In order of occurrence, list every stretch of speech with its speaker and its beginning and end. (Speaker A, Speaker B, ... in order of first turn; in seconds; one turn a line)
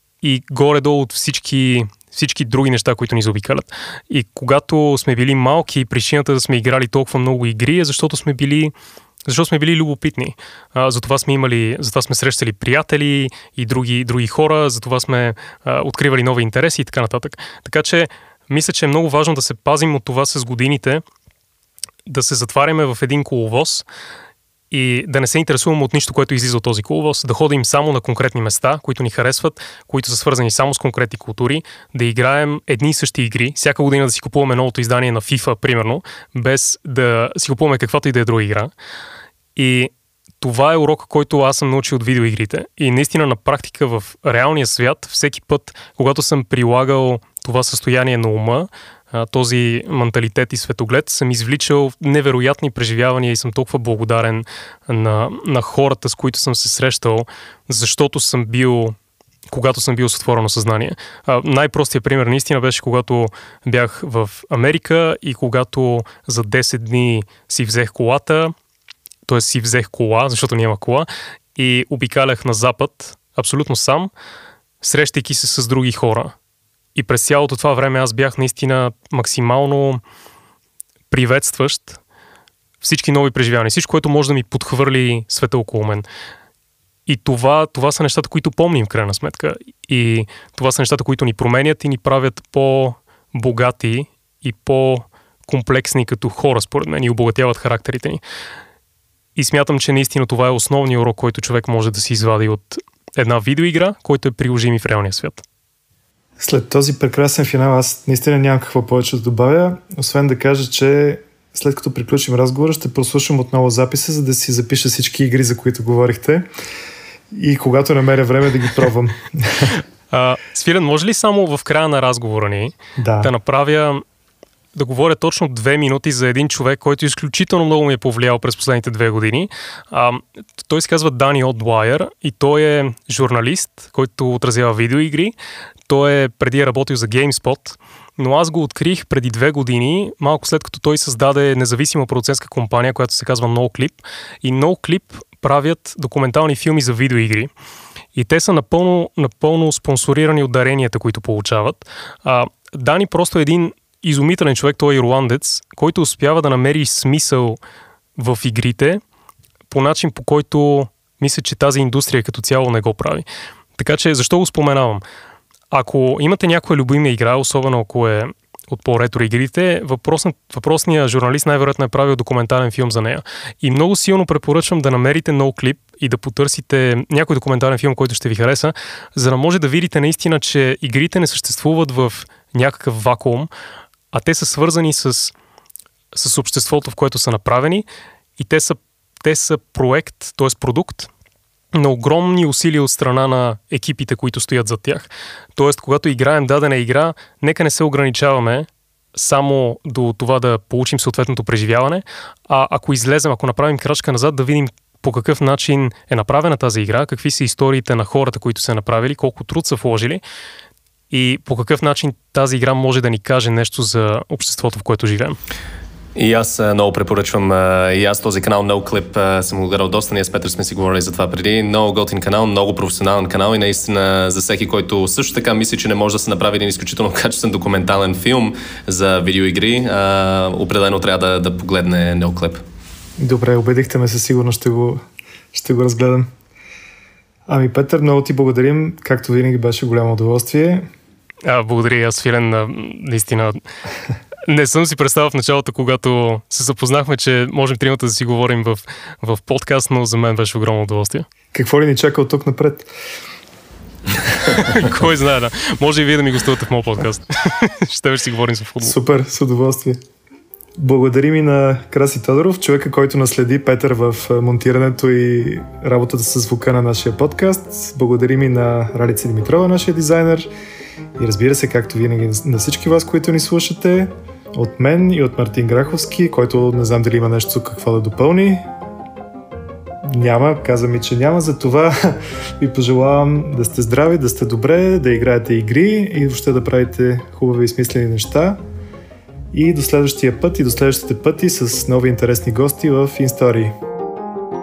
Speaker A: 0.2-8.7
Speaker A: 9.3-21.0
Speaker A: 22.1-23.8
Speaker A: 24.7-38.7
Speaker A: 39.5-59.0
Speaker A: 59.5-68.5
Speaker A: 69.3-74.1
Speaker A: 74.8-76.3
Speaker A: 76.9-80.0
Speaker A: 81.1-82.0
Speaker A: 82.8-86.0
Speaker A: 87.1-98.2
Speaker A: 99.3-105.4
Speaker B: 106.4-116.4
Speaker B: 117.3-119.8
Speaker A: 120.1-124.0
Speaker B: 123.0-123.3
Speaker A: 124.7-135.3
Speaker A: 135.9-147.5
Speaker A: 148.1-157.6
Speaker A: 158.2-159.0
Speaker A: 159.7-163.2
Speaker A: 163.8-165.0
Speaker A: 165.7-183.5
Speaker A: 184.1-185.3
Speaker A: 186.1-187.8
Speaker A: 188.4-191.1
Speaker A: 191.7-210.2
Speaker A: 211.1-215.4
Speaker C: 216.2-232.6
Speaker B: 233.2-235.0
Speaker B: 235.5-236.3
Speaker B: 237.5-240.9
Speaker A: 241.4-243.6
Speaker A: 244.5-251.3
Speaker B: 251.5-252.9
Speaker A: 254.4-258.9
Speaker B: 258.8-260.0
Speaker B: 260.8-270.5
Speaker B: 271.2-278.6
Speaker B: 280.1-288.6
Speaker B: 289.5-293.7